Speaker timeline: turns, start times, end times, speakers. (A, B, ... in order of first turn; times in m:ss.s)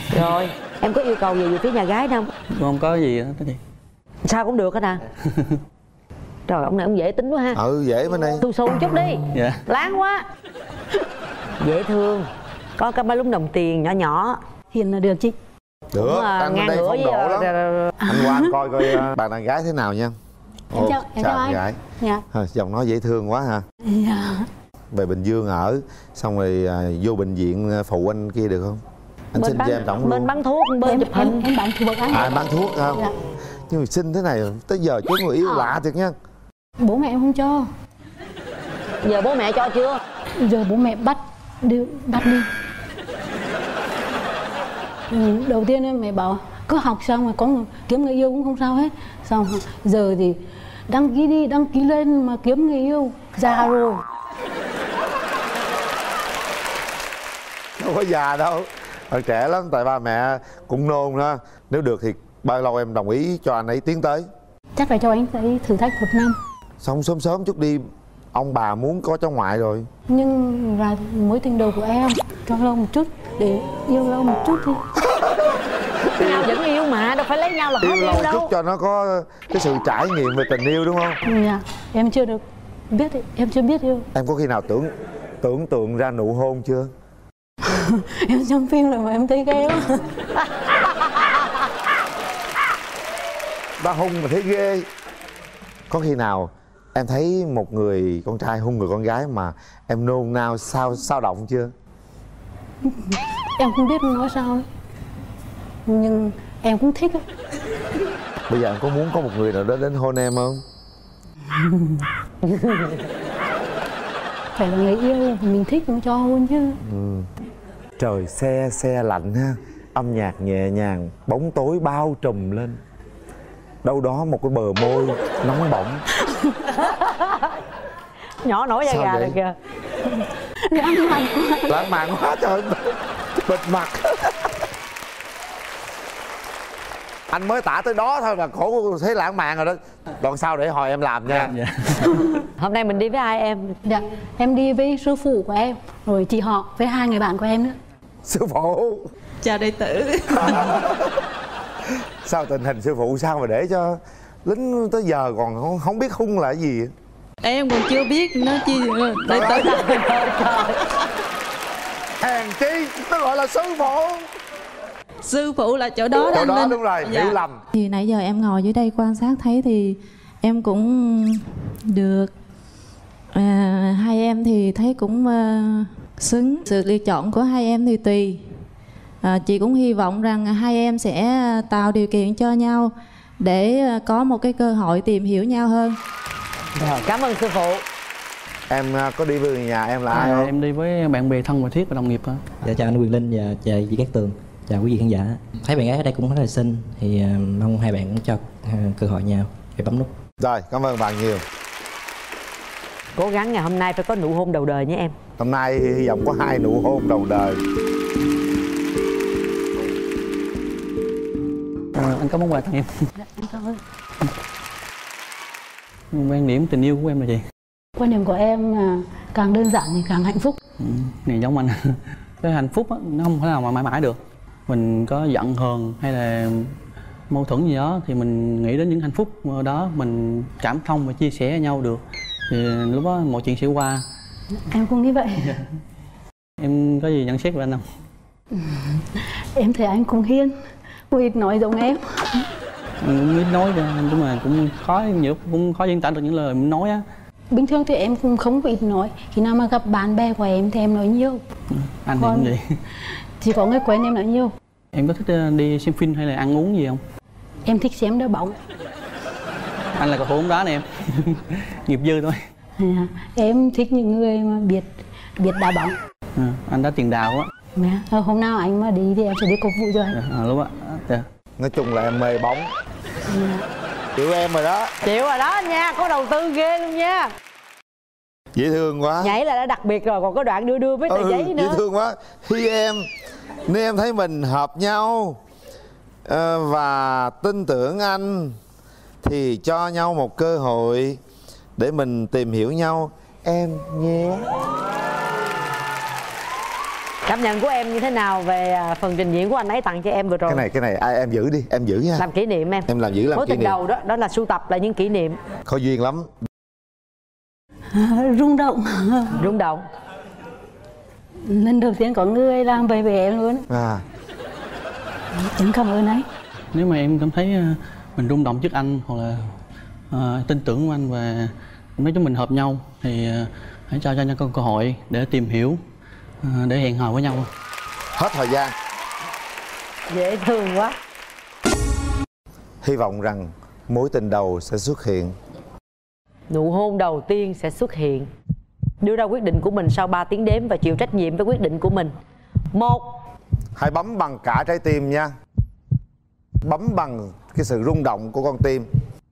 0:00.1-0:02.3 A
0:02.5-0:03.6 B
0:04.2-0:05.0 A
0:05.2-0:05.6 B
0:06.5-0:07.6 A
0:07.5-0:08.4 C
0:08.4-0:10.2 A
0:09.3-0:09.6 B
0:11.6-0:14.4 A
0:14.7-0:15.4 D
0:15.9-0:17.5 C
0:16.0-0:17.9 A
0:18.0-0:19.0 D
0:18.1-0:20.1 C
0:20.7-0:21.8 C
0:20.7-0:22.2 D
0:22.3-0:23.6 C
0:23.8-0:24.5 D
0:24.9-0:28.8 C
0:29.3-0:30.3 C
0:29.4-0:31.5 A
0:30.8-0:32.3 D
0:32.1-0:33.0 C
0:33.7-0:36.1 C
0:36.8-0:37.6 D
0:39.0-0:40.0 A
0:40.4-0:42.5 D
0:45.1-0:54.0 D
0:57.8-1:04.2 C
1:04.7-1:06.4 D
1:06.8-1:07.8 C
1:08.3-1:09.9 C
1:10.1-1:14.8 D
1:16.1-1:16.6 C
1:16.2-1:18.5 A
1:17.8-1:21.2 C
1:21.2-1:24.0 D
1:24.1-1:24.9 C
1:25.4-1:26.9 C
1:27.6-1:30.0 D
1:33.8-1:34.8 C
1:35.9-1:41.7 C
1:42.8-1:44.6 D
1:45.8-1:47.2 D
1:48.5-1:50.6 C
1:51.5-1:52.0 D
1:52.5-1:52.8 A
1:54.5-1:56.8 D
1:56.8-1:57.2 C
1:58.0-2:02.8 C
2:03.8-2:06.0 C
2:06.3-2:06.6 D
2:07.0-2:07.4 A
2:08.4-2:09.5 A
2:08.8-2:09.4 C
2:10.6-2:11.8 D
2:11.7-2:14.5 C
2:17.3-2:21.5 C
2:21.3-2:22.2 B
2:22.6-2:23.7 A
2:23.8-2:27.8 D
2:28.2-2:29.1 C
2:29.4-2:30.7 E
2:30.4-2:31.1 C
2:32.2-2:36.9 C
2:37.4-2:40.8 E
2:39.2-2:39.8 C
2:40.0-2:40.7 A
2:42.2-2:44.2 C
2:45.2-2:47.4 E
2:46.1-2:47.6 C
2:47.7-2:52.3 F
2:53.3-2:58.4 F
2:59.2-3:06.0 F
3:06.8-3:07.8 A
3:08.7-3:10.5 C
3:10.1-3:12.5 B
3:12.6-3:20.1 G
3:20.4-3:21.4 C
3:23.2-3:25.1 A
3:25.4-3:27.6 C
3:31.9-3:32.9 B
3:33.2-3:33.8 D
3:36.1-3:37.4 B
3:38.0-3:40.6 D
3:40.8-3:46.7 B
3:47.3-3:54.0 B
3:54.7-3:55.5 D
3:56.6-3:57.8 B
3:58.5-4:00.5 D
4:01.1-4:02.5 D
4:03.0-4:07.0 B
4:07.5-4:11.4 D
4:11.7-4:12.6 B
4:12.2-4:12.5 D
4:13.4-4:14.5 D
4:14.9-4:17.0 B
4:17.6-4:18.6 D
4:20.0-4:22.4 B
4:22.8-4:26.0 D
4:26.3-4:27.5 B
4:27.7-4:30.2 D
4:30.1-4:31.2 B
4:31.6-4:32.7 C
4:33.2-4:33.6 D
4:34.2-4:34.9 C
4:35.0-4:37.3 A
4:38.5-4:39.4 C
4:39.2-4:41.8 A
4:41.1-4:43.0 C
4:43.6-4:45.4 C
4:46.2-4:48.6 C
4:49.2-4:51.2 C
4:51.8-4:54.5 C
4:57.3-5:00.6 A
5:00.5-5:02.2 C
5:02.2-5:05.4 A
5:02.8-5:03.8 C
5:05.6-5:06.3 C
5:07.9-5:09.5 D
5:09.4-5:09.8 A
5:11.4-5:13.6 D
5:13.7-5:14.0 C
5:15.3-5:16.2 D
5:16.7-5:19.5 B
5:20.1-5:25.8 B
5:26.4-5:27.5 B
5:28.2-5:28.7 C
5:30.1-5:30.9 A
5:32.8-5:35.3 C
5:36.5-5:38.3 A
5:39.0-5:42.1 A
5:42.7-5:43.0 A
5:43.8-5:45.3 C
5:46.6-5:48.8 C